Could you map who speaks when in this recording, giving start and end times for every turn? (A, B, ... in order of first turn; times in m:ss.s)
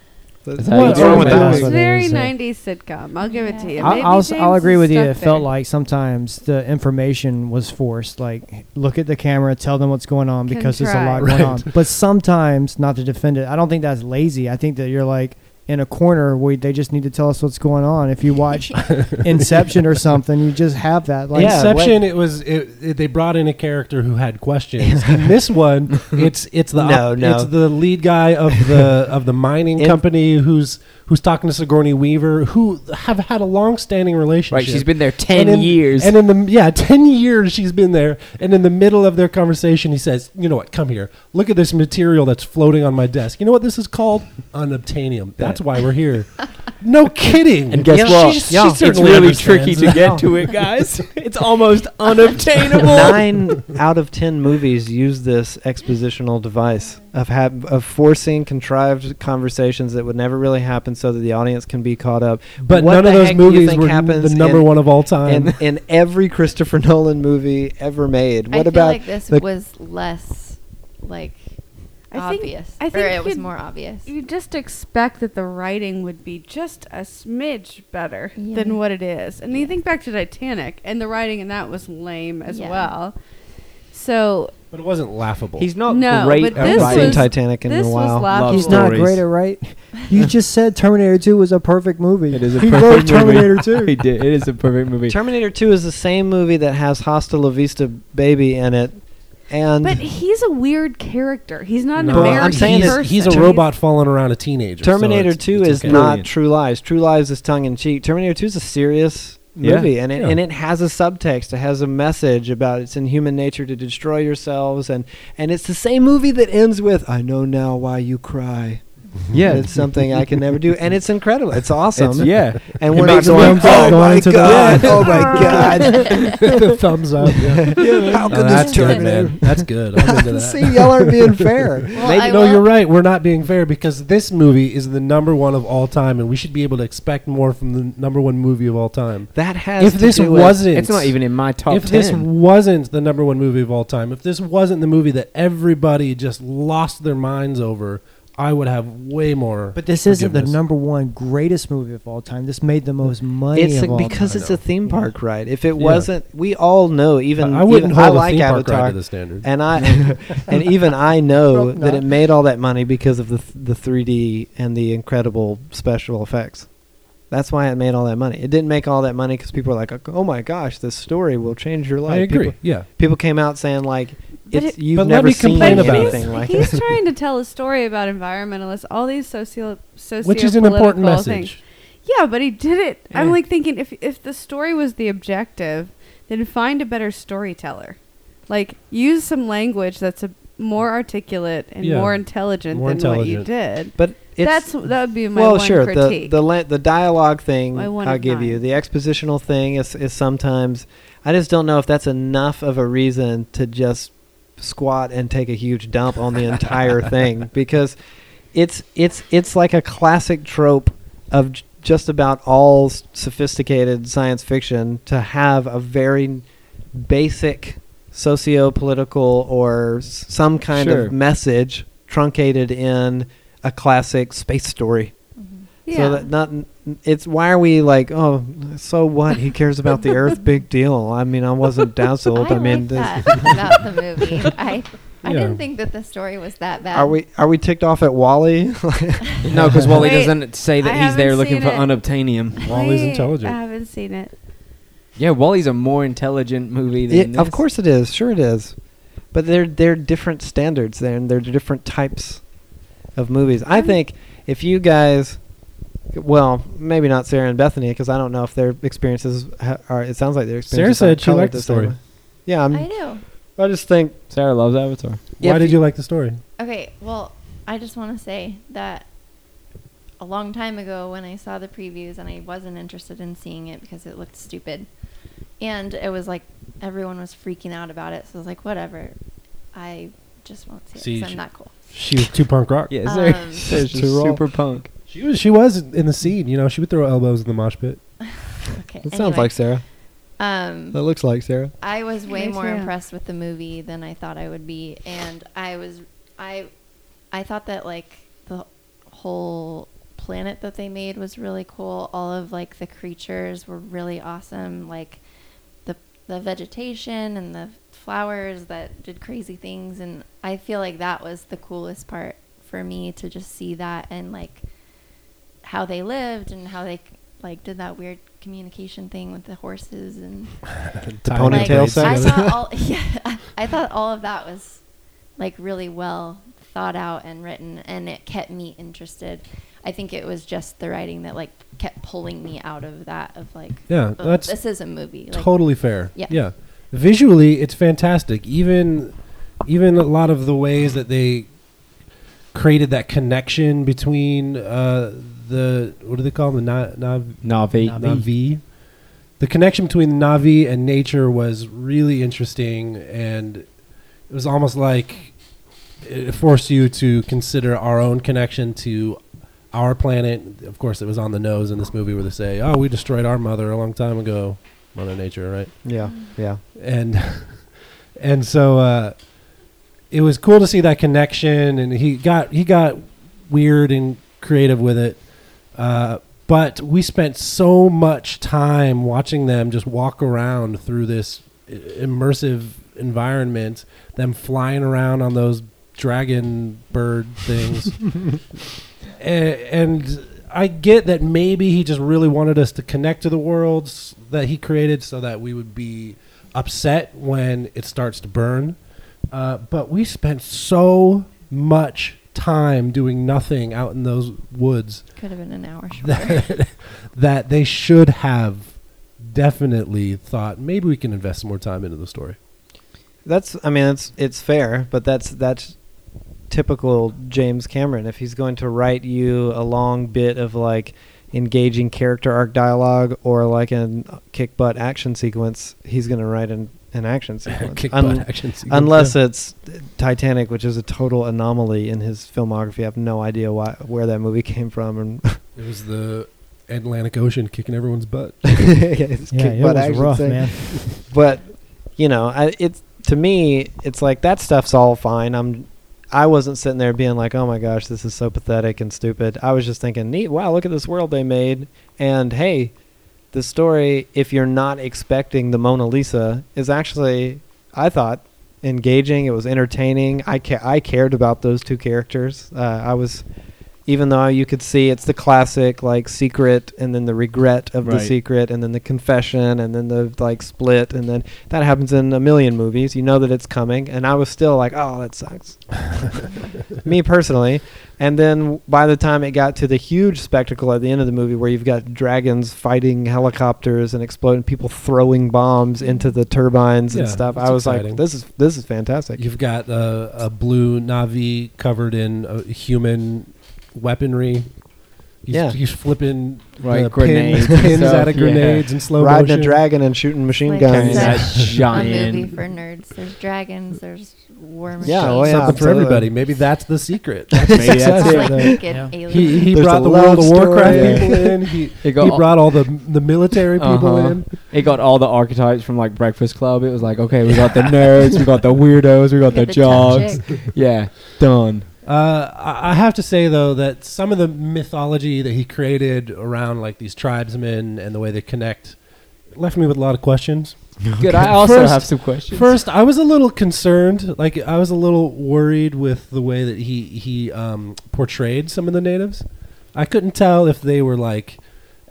0:00.4-0:01.7 A
0:00.6-0:01.7 B
0:00.7-0:01.7 C
0:00.8-0:02.3 D
0:01.5-0:05.5 E
0:03.2-0:04.1 F
0:03.8-0:21.7 D
0:10.4-0:11.5 E
0:11.2-0:11.7 C
0:18.9-0:19.2 C
0:21.3-0:22.0 A
0:21.3-0:50.3 C
0:24.8-0:25.2 A
0:26.7-0:27.5 A
0:34.5-0:36.2 B
0:45.4-0:45.6 B
0:47.7-0:53.2 B
0:47.9-0:48.6 A
0:49.1-0:50.2 D
0:52.8-1:09.4 A
1:02.6-1:05.6 C
1:08.5-1:11.5 F
1:12.1-1:23.1 E
1:12.1-1:14.1 F
1:18.3-1:18.8 F
1:19.5-1:19.8 F
1:22.5-1:22.9 F
1:23.9-1:24.5 E
1:24.7-1:25.8 C
1:25.6-1:27.3 B
1:25.9-1:29.0 E
1:26.5-1:27.2 C
1:26.8-1:28.3 A
1:28.3-1:29.2 B
1:28.5-1:34.0 D
1:32.3-1:35.2 B
1:35.1-1:40.0 A
1:39.8-1:43.7 E
1:42.0-1:46.1 C
1:42.1-1:43.6 A
1:44.8-2:06.2 A
1:45.8-1:46.3 B
1:49.6-1:49.9 B
1:59.3-2:00.1 B
2:02.0-2:06.4 B
2:02.2-2:21.2 C
2:04.0-2:04.3 D
2:05.0-2:06.4 F
2:07.4-2:12.0 A
2:07.8-2:08.7 B
2:08.5-2:09.3 F
2:11.9-2:12.7 F
2:19.3-2:20.6 A
2:20.7-2:22.3 B
2:21.7-2:30.6 C
2:29.7-2:34.3 D
2:33.5-2:46.7 A
2:34.1-2:34.6 C
2:35.8-2:36.1 C
2:37.4-2:39.5 C
2:41.5-2:42.0 D
2:47.3-2:56.9 A
2:52.0-2:52.9 C
2:54.5-2:54.8 E
2:54.9-2:56.3 C
2:55.4-3:16.4 E
3:00.2-3:01.6 C
3:03.1-3:03.4 B
3:11.8-3:13.5 C
3:14.0-3:28.0 A
3:17.7-3:18.6 E
3:28.5-3:45.1 A
3:40.7-3:41.1 B
3:45.4-3:45.7 F
3:45.8-3:46.3 E
3:45.9-3:53.8 A
3:52.3-3:57.2 F
3:52.5-3:52.8 E
3:55.2-3:55.6 C
3:56.9-4:00.0 A
3:59.4-4:02.6 B
4:00.0-4:01.9 E
4:02.6-4:04.3 E
4:02.6-4:03.6 C
4:05.2-4:07.6 B
4:07.1-4:08.7 A
4:09.3-4:12.4 A
4:13.1-4:15.4 A
4:16.1-4:24.2 A
4:20.7-4:21.9 C
4:22.7-4:23.2 F
4:24.3-4:25.2 B
4:25.4-4:26.4 C
4:25.4-4:25.8 A
4:26.6-4:29.0 F
4:30.2-4:34.9 F
4:35.6-4:39.1 F
4:39.7-4:41.7 F
4:41.0-4:42.9 C
4:42.9-4:44.9 B
4:43.0-4:43.8 F
4:43.7-4:44.4 A
4:45.1-4:48.0 C
4:48.7-4:49.5 F
4:49.1-4:49.8 A
4:50.4-4:51.0 F
4:50.9-4:51.7 A
4:51.8-4:56.7 F
4:52.3-4:52.9 E
4:57.3-5:05.2 F
5:05.8-5:14.6 F
5:15.6-5:20.7 F
5:21.0-5:22.6 C
5:21.2-5:22.6 A
5:21.4-5:24.8 F
5:25.4-5:36.4 F
5:33.9-5:41.5 C
5:42.5-5:48.7 C
5:47.4-5:48.2 B
5:47.8-5:48.2 D
5:49.4-5:53.6 C
5:54.3-5:55.3 C
5:56.0-5:59.2 C
5:59.7-6:05.8 C
6:05.8-6:06.6 A
6:06.0-6:06.4 F
6:06.7-6:09.3 C
6:10.1-6:15.2 C
6:15.7-6:28.4 C
6:29.2-6:38.8 C
6:39.3-6:45.1 C
6:45.2-6:46.5 F
6:46.0-6:52.4 C
6:53.2-6:55.7 A
6:56.5-7:15.4 A
7:07.5-7:09.2 C
7:15.5-7:18.8 C
7:18.5-7:32.7 A
7:19.3-7:20.9 D
7:33.3-7:43.2 A
7:43.8-8:09.2 A
7:47.8-7:48.1 B
8:05.8-8:06.1 F
8:06.9-8:08.0 C
8:09.2-8:14.5 C
8:15.2-8:19.6 C
8:15.3-8:15.6 A
8:16.6-8:18.7 B
8:18.9-8:21.4 A
8:20.4-8:25.6 F
8:20.6-8:22.3 B
8:24.8-8:26.0 A
8:24.8-8:26.1 D
8:25.2-8:34.3 C
8:27.4-8:28.6 A
8:27.5-8:28.6 B
8:27.8-8:29.5 F
8:28.7-8:28.9 D
8:29.4-8:31.5 A
8:30.6-8:31.3 B
8:31.8-8:32.5 B
8:33.6-8:41.7 B
8:39.3-8:40.4 F
8:41.8-8:48.8 C
8:49.3-9:01.4 C
8:51.0-8:52.6 B